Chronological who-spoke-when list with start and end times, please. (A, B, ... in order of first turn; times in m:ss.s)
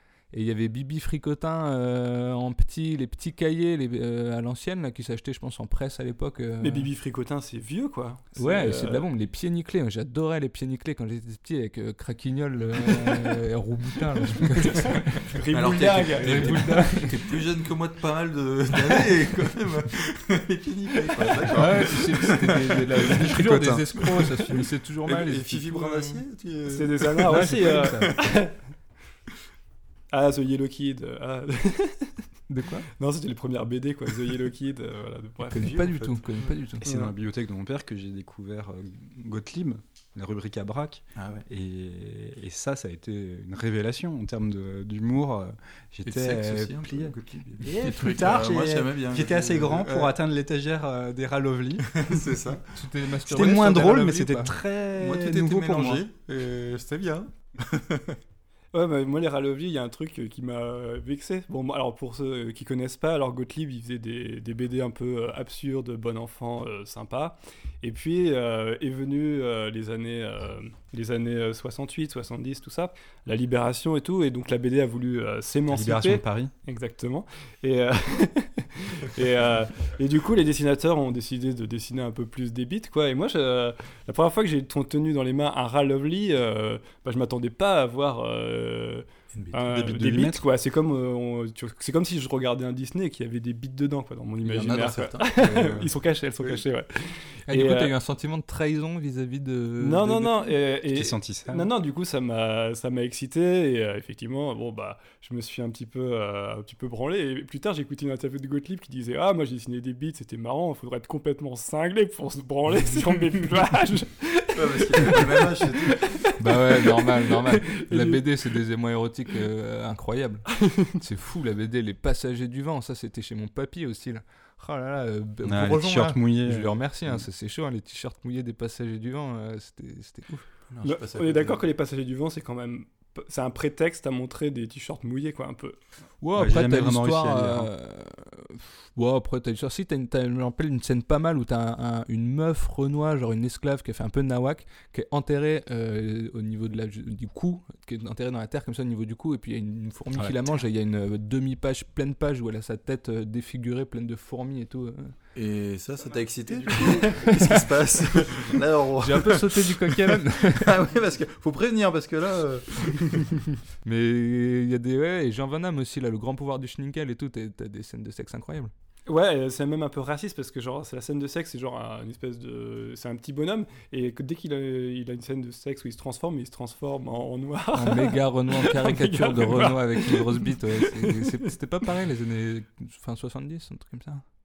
0:00.3-0:06.9 A
0:06.6-0:09.1 B
0:08.4-0:15.3 A
0:14.6-0:16.9 B
0:15.5-0:28.3 C
0:16.2-0:17.3 A
0:21.5-0:26.2 A
0:23.1-0:24.0 D
0:26.7-0:28.5 B
0:27.3-0:28.1 A
0:30.1-0:32.2 B
0:32.5-0:32.9 A
0:33.0-0:35.9 B
0:35.5-0:36.8 A
0:35.6-0:36.5 C
0:36.8-0:52.1 D
0:36.8-0:37.1 B
0:41.2-0:41.4 C
0:46.0-0:50.1 C
0:51.9-0:52.7 C
0:52.7-0:54.6 A
0:53.2-0:56.0 D
0:54.9-0:58.2 C
0:58.7-1:37.9 B
1:15.7-1:16.5 D
1:29.3-1:29.8 C
1:29.7-1:30.4 D
1:34.4-1:35.9 C
1:37.5-1:40.5 A
1:39.8-1:58.2 B
1:40.9-1:41.7 D
1:54.5-1:56.1 C
1:56.4-2:10.3 A
2:00.6-2:00.9 B
2:05.4-2:06.7 D
2:10.3-2:11.6 C
2:10.8-2:15.8 B
2:16.2-2:35.1 A
2:16.3-2:17.7 D
2:35.3-2:43.4 C
2:36.1-2:37.5 B
2:37.2-2:37.6 A
2:39.0-2:40.8 A
2:43.8-2:48.7 A
2:49.1-3:01.4 B
2:57.7-3:04.2 A